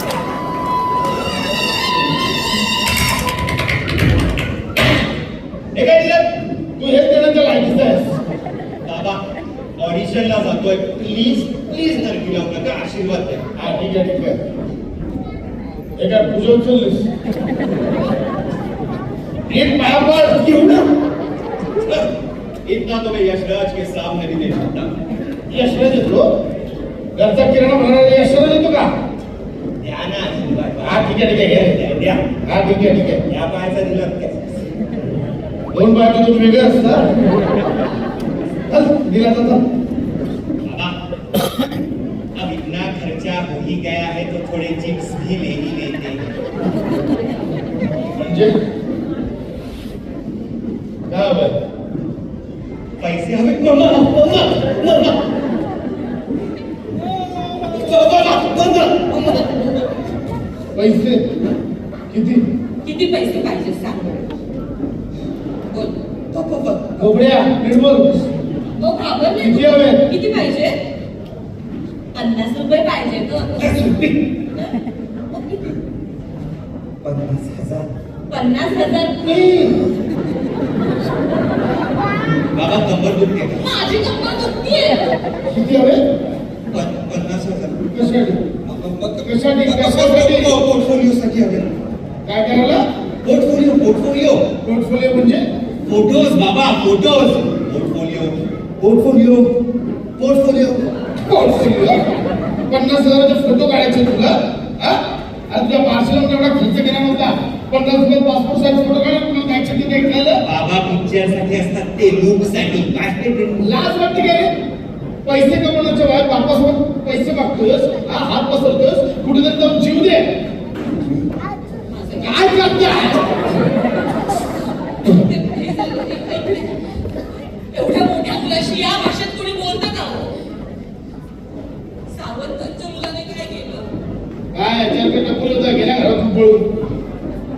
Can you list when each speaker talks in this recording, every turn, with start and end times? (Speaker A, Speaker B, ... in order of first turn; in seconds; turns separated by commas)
Speaker A: 5.7-6.2, Speaker B: 6.8-8.2, Speaker A: 8.8-9.2, Speaker A: 9.8-13.6, Speaker B: 13.6-14.4, Speaker B: 15.9-17.1, Speaker B: 19.5-20.8, Speaker A: 22.6-24.9, Speaker B: 25.5-26.3, Speaker B: 27.1-28.9, Speaker A: 29.8-32.2, Speaker B: 30.8-31.8, Speaker B: 32.4-33.2, Speaker A: 33.3-34.6, Speaker B: 35.7-37.1, Speaker B: 38.7-39.6, Speaker A: 40.6-41.0, Speaker A: 42.3-46.2, Speaker B: 48.1-48.5, Speaker B: 51.1-51.5, Speaker A: 53.0-55.2, Speaker A: 57.5-59.5, Speaker B: 60.7-61.2, Speaker B: 62.1-62.4, Speaker C: 62.8-64.2, Speaker C: 65.7-66.0, Speaker A: 66.3-67.0, Speaker B: 67.0-68.3, Speaker C: 68.8-70.8, Speaker B: 69.4-70.0, Speaker C: 72.1-73.8, Speaker A: 73.6-74.2, Speaker C: 75.3-75.8, Speaker A: 77.0-77.9, Speaker C: 78.3-79.6, Speaker B: 79.2-79.7, Speaker A: 82.5-83.7, Speaker C: 83.6-85.1, Speaker B: 85.5-86.0, Speaker A: 86.7-87.8, Speaker B: 87.9-88.4, Speaker A: 88.6-91.7, Speaker B: 89.2-90.5, Speaker B: 92.2-92.8, Speaker A: 93.2-94.5, Speaker B: 94.6-95.4, Speaker A: 95.8-99.5, Speaker A: 100.2-100.9, Speaker B: 101.2-102.0, Speaker B: 102.7-110.4, Speaker A: 110.4-113.7, Speaker B: 113.6-114.5, Speaker B: 115.2-120.2, Speaker C: 121.9-122.8, Speaker B: 122.2-123.6, Speaker C: 125.0-126.8, Speaker C: 127.7-130.3, Speaker C: 132.1-133.9, Speaker B: 134.5-136.6